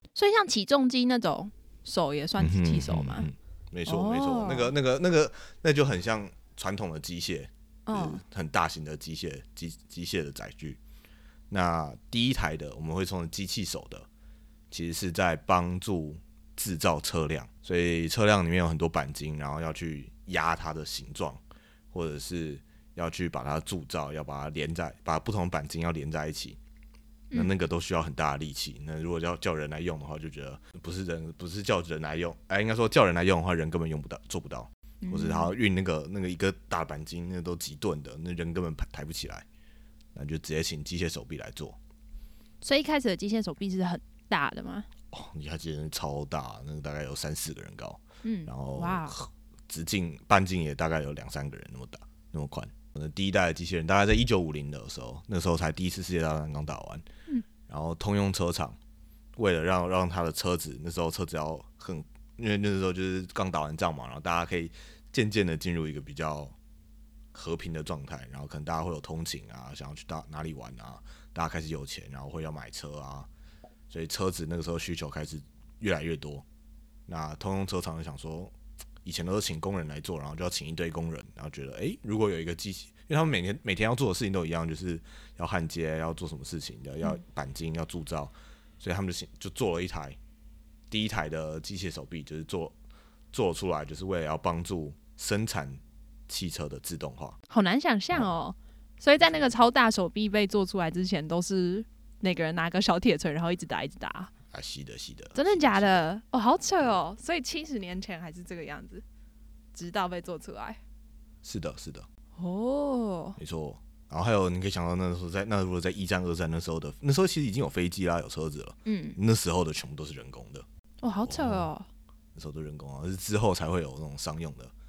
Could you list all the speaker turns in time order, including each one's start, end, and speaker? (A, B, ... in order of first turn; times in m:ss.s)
0:00.2-0:03.3 A
0:02.4-0:10.8 B
0:03.9-0:04.7 A
0:07.9-0:08.2 A
0:11.5-0:14.1 B
0:14.7-0:21.4 B
0:21.9-0:26.6 B
0:27.3-0:39.5 B
0:35.0-0:35.5 A
0:40.2-0:41.8 B
0:42.6-0:44.9 A
0:45.1-0:57.0 B
0:48.2-0:49.2 A
0:57.7-0:58.8 B
0:59.4-1:06.6 B
1:07.3-1:13.3 B
1:13.9-1:16.4 B
1:17.1-1:30.2 B
1:30.9-1:32.8 B
1:33.3-1:37.4 B
1:37.5-1:44.3 A
1:39.2-1:39.5 B
1:44.5-1:46.1 B
1:45.4-1:49.0 A
1:49.7-1:50.8 A
1:51.4-1:52.1 B
1:52.4-1:53.4 A
1:53.4-2:00.6 B
1:58.9-1:59.2 A
2:01.0-2:01.9 A
2:01.2-2:01.7 B
2:02.4-2:04.7 B